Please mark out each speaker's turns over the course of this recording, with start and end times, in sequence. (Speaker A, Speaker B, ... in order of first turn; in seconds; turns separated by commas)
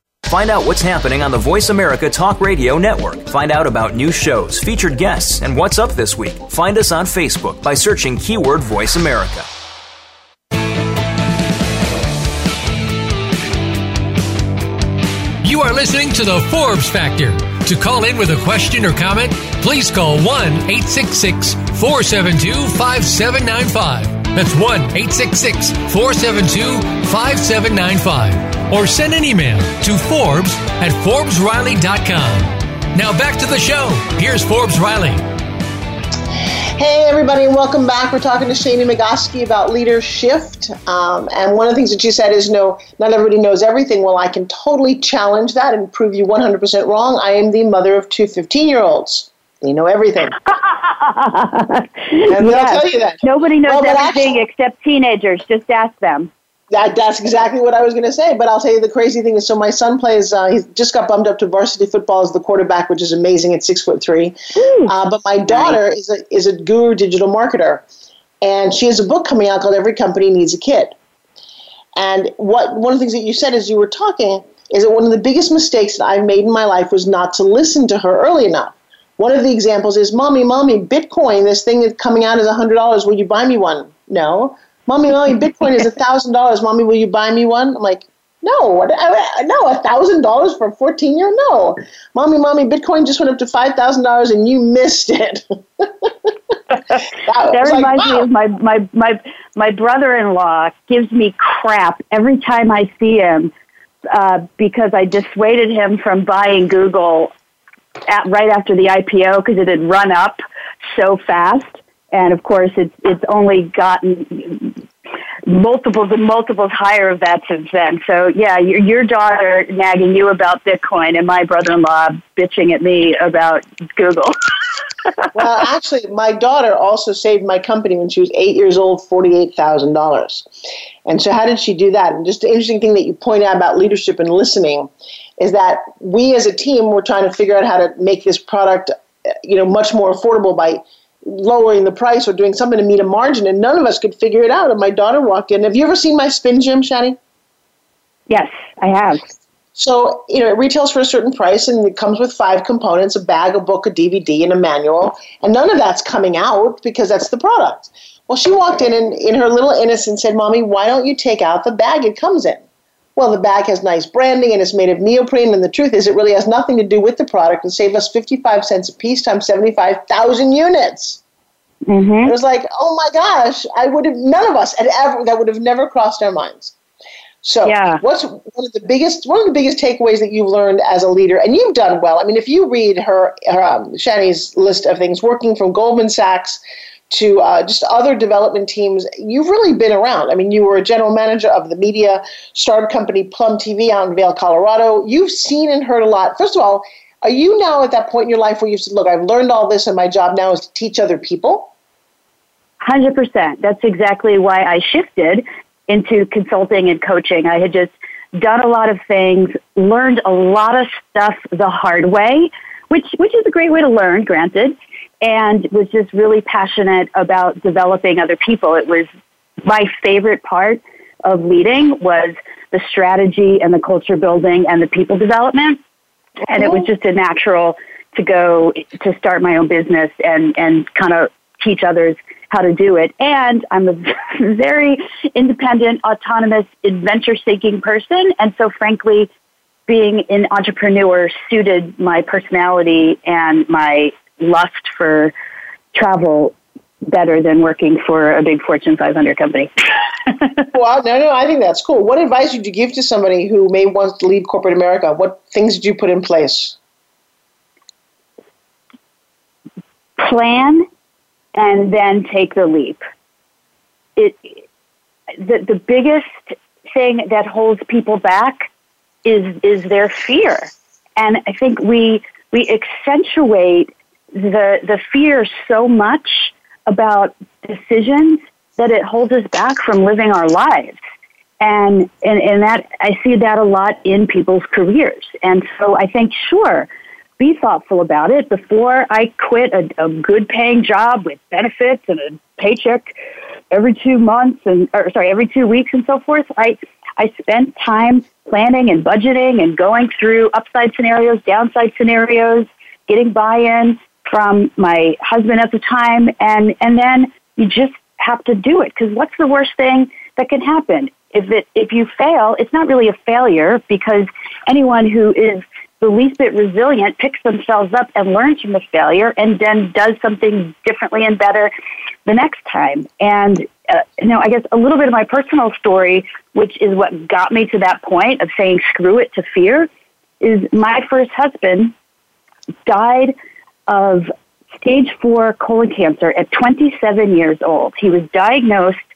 Speaker A: 0.2-9.5, Speaker B: 15.4-35.2, Speaker C: 36.8-50.4, Speaker D: 50.6-56.3, Speaker C: 52.3-54.4, Speaker C: 56.7-64.3, Speaker D: 64.5-64.9, Speaker C: 64.8-67.8, Speaker D: 65.5-65.8, Speaker C: 68.4-71.0, Speaker C: 72.0-96.3, Speaker C: 97.2-98.2, Speaker D: 97.5-103.5, Speaker D: 104.1-107.3, Speaker D: 108.1-110.4, Speaker D: 110.9-114.8, Speaker D: 115.5-124.3, Speaker C: 125.3-130.4, Speaker C: 131.1-147.2, Speaker D: 148.3-149.2, Speaker C: 149.8-162.6, Speaker C: 163.2-171.2, Speaker D: 171.8-172.3, Speaker C: 172.2-176.7, Speaker C: 177.4-201.7, Speaker D: 177.6-178.0, Speaker D: 202.8-219.1, Speaker D: 219.6-225.8, Speaker D: 226.5-239.3, Speaker D: 239.9-245.3, Speaker D: 245.9-249.7, Speaker C: 250.7-256.8, Speaker D: 260.2-260.9, Speaker D: 261.5-263.0, Speaker D: 264.2-264.6, Speaker D: 265.4-268.7, Speaker D: 269.2-280.9, Speaker D: 281.6-293.1, Speaker D: 293.7-321.7, Speaker D: 322.2-329.9, Speaker D: 330.4-331.9, Speaker D: 332.9-333.3, Speaker D: 333.9-339.0